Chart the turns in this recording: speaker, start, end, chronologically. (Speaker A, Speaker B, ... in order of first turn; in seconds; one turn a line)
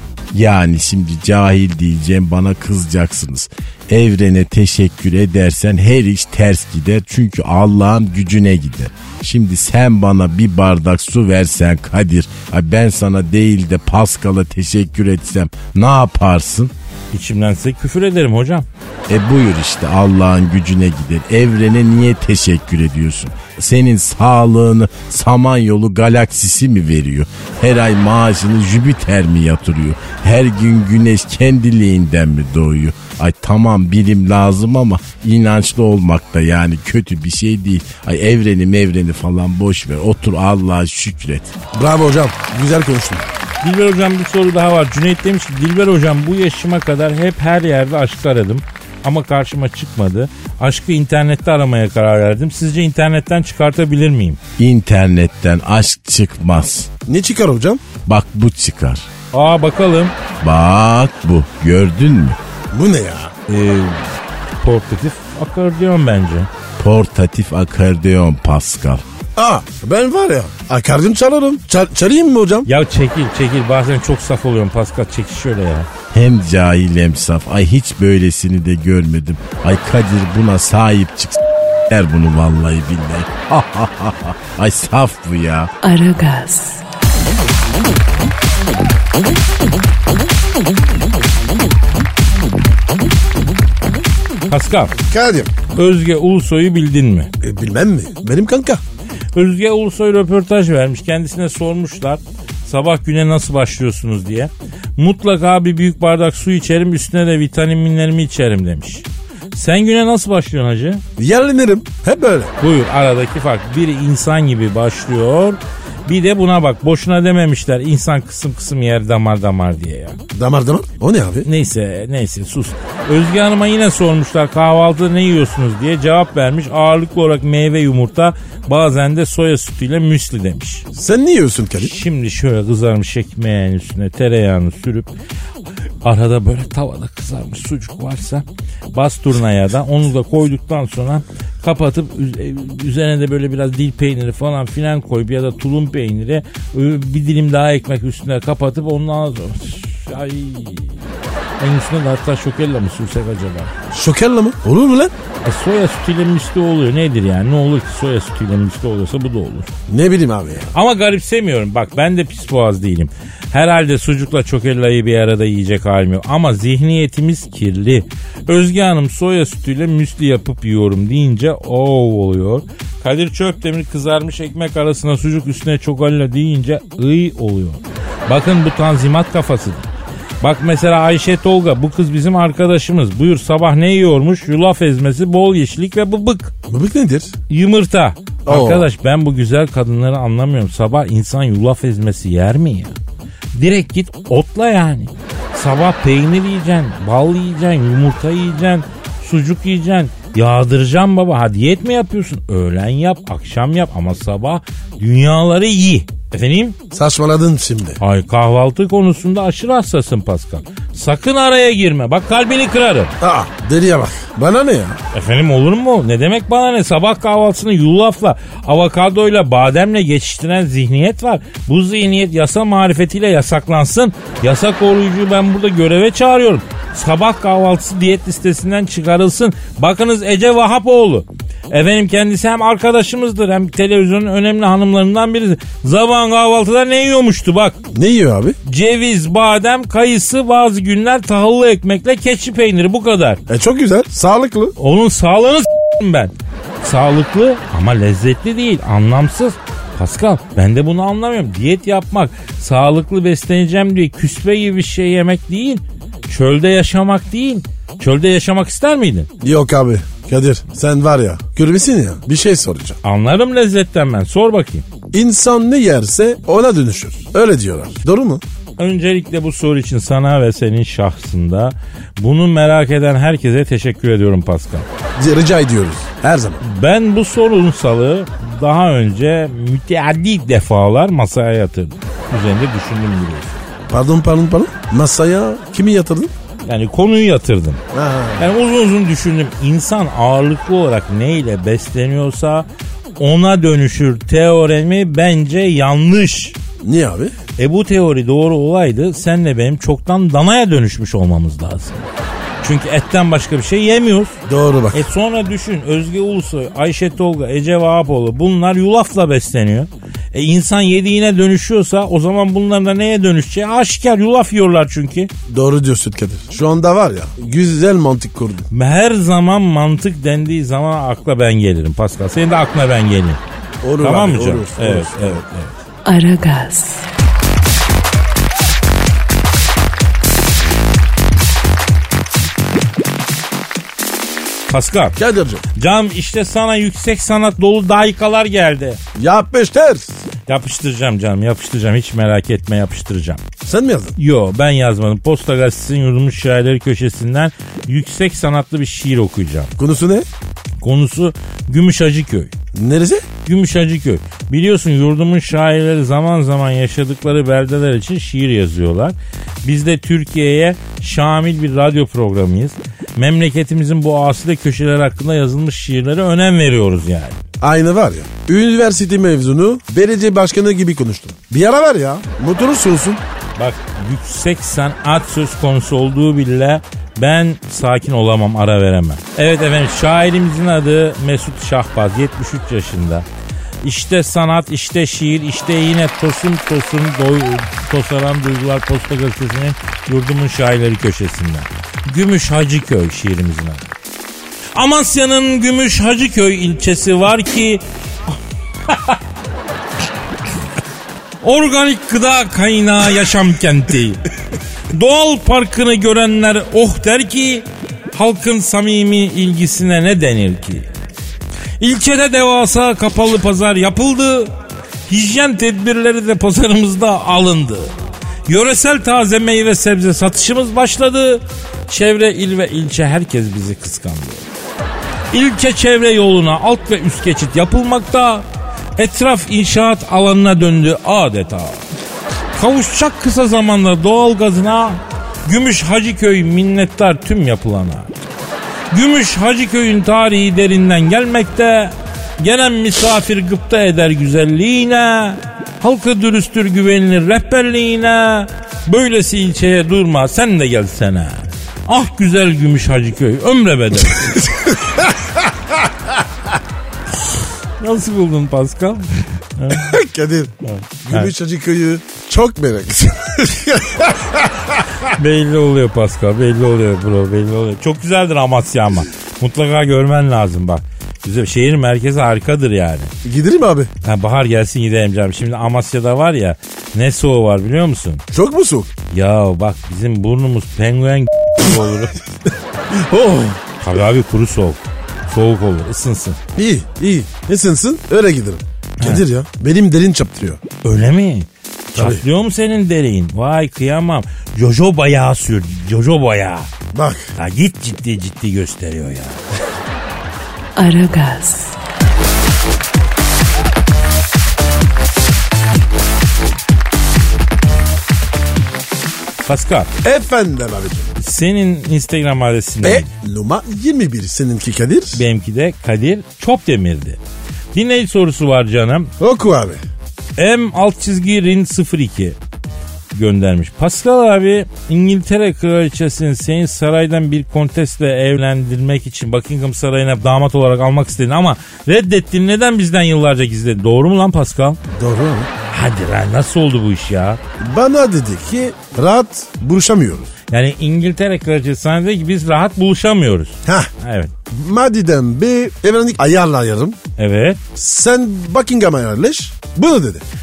Speaker A: 0.3-16.7
Speaker B: 17.1-18.7
Speaker A: 19.1-41.5
Speaker C: 41.7-43.3
Speaker B: 43.6-54.4
Speaker A: 54.6-56.9
Speaker C: 57.1-57.8
Speaker A: 58.1-59.0
Speaker B: 59.3-60.2
Speaker A: 60.4-62.4
Speaker C: 62.7-63.3
Speaker B: 63.5-64.0
Speaker B: 64.6-66.5
Speaker A: 66.8-69.0
Speaker C: 69.4-72.7
Speaker B: 72.7-75.9
Speaker A: 76.1-85.7
Speaker D: 85.8-86.8
Speaker B: 94.5-94.9
Speaker C: 95.0-95.5
Speaker B: 95.7-97.3
Speaker C: 97.4-98.8
Speaker B: 99.3-111.0
Speaker C: 111.2-112.5
Speaker B: 112.6-120.2
Speaker C: 120.3-121.5
Speaker B: 121.5-130.9
Speaker C: 130.9-132.0
Speaker B: 131.8-135.1
Speaker B: 136.0-151.0
Speaker B: 151.6-153.7
Speaker C: 153.9-155.1
Speaker B: 155.4-159.7
Speaker C: 159.9-160.7
Speaker B: 160.7-179.9
Speaker B: 180.4-186.5
Speaker C: 186.7-187.3
Speaker B: 187.5-192.9
Speaker C: 188.5-188.9
Speaker B: 193.5-206.8
Speaker C: 206.9-208.0
Speaker B: 208.0-213.2
Speaker C: 213.2-215.0
Speaker B: 215.1-237.8
Speaker C: 237.9-238.6
Speaker B: 238.7-243.4
Speaker C: 243.5-244.8
Speaker B: 244.8-259.3
Speaker C: 259.4-263.0
Speaker B: 263.0-264.9
Speaker C: 265.1-268.4
Speaker B: 268.8-274.9
Speaker C: 275.2-276.6
Speaker B: 276.6-283.6
Speaker C: 283.9-286.3
Speaker B: 286.7-287.8
Speaker C: 287.9-288.5
Speaker B: 288.4-292.7
Speaker B: 293.2-296.6
Speaker C: 296.8-297.4
Speaker B: 297.6-302.1
Speaker B: 302.6-304.4
Speaker C: 304.5-305.1
Speaker B: 304.9-315.3
Speaker C: 315.5-318.7
Speaker B: 318.7-323.4
Speaker C: 323.8-325.4
Speaker B: 324.0-325.8
Speaker D: 326.1-327.1
Speaker B: 334.7-335.2
Speaker C: 335.2-335.6
Speaker B: 335.8-339.0
Speaker C: 339.1-340.2
Speaker B: 340.5-343.4
Speaker C: 343.6-344.2
Speaker B: 344.2-349.7
Speaker C: 349.8-350.3
Speaker B: 350.8-352.5
Speaker C: 352.8-353.3
Speaker B: 353.4-367.4
Speaker C: 367.6-373.2
Speaker B: 373.6-383.3
Speaker B: 383.8-393.9
Speaker B: 394.8-397.8
Speaker B: 398.9-399.2
Speaker B: 401.4-404.2
Speaker B: 404.9-410.9
Speaker B: 411.8-414.5
Speaker B: 415.1-417.9
Speaker B: 418.5-424.4
Speaker B: 425.3-428.5
Speaker B: 429.0-431.8
Speaker B: 432.6-438.1
Speaker B: 438.9-454.5
Speaker C: 454.4-455.9
Speaker B: 457.8-460.0
Speaker C: 459.7-464.9
Speaker B: 460.6-461.3
Speaker B: 465.1-473.1
Speaker C: 473.2-473.9
Speaker B: 474.0-478.2
Speaker C: 478.3-478.9
Speaker B: 479.1-482.2
Speaker C: 482.9-483.6
Speaker B: 483.8-486.4
Speaker C: 486.6-490.6
Speaker B: 490.8-496.7
Speaker C: 491.9-492.2
Speaker C: 496.9-497.3
Speaker B: 497.4-499.4
Speaker D: 500.8-501.8
Speaker B: 509.5-509.9
Speaker C: 510.0-511.1
Speaker B: 511.2-513.1
Speaker C: 512.8-515.2
Speaker B: 515.1-517.2
Speaker B: 517.7-519.1
Speaker C: 519.2-519.8
Speaker B: 520.4-522.4
Speaker B: 523.1-534.8
Speaker C: 535.0-535.5
Speaker B: 535.7-537.4
Speaker C: 537.6-540.3
Speaker B: 540.5-544.3
Speaker C: 543.6-543.9
Speaker C: 544.5-547.0
Speaker B: 547.2-547.6
Speaker C: 547.8-550.2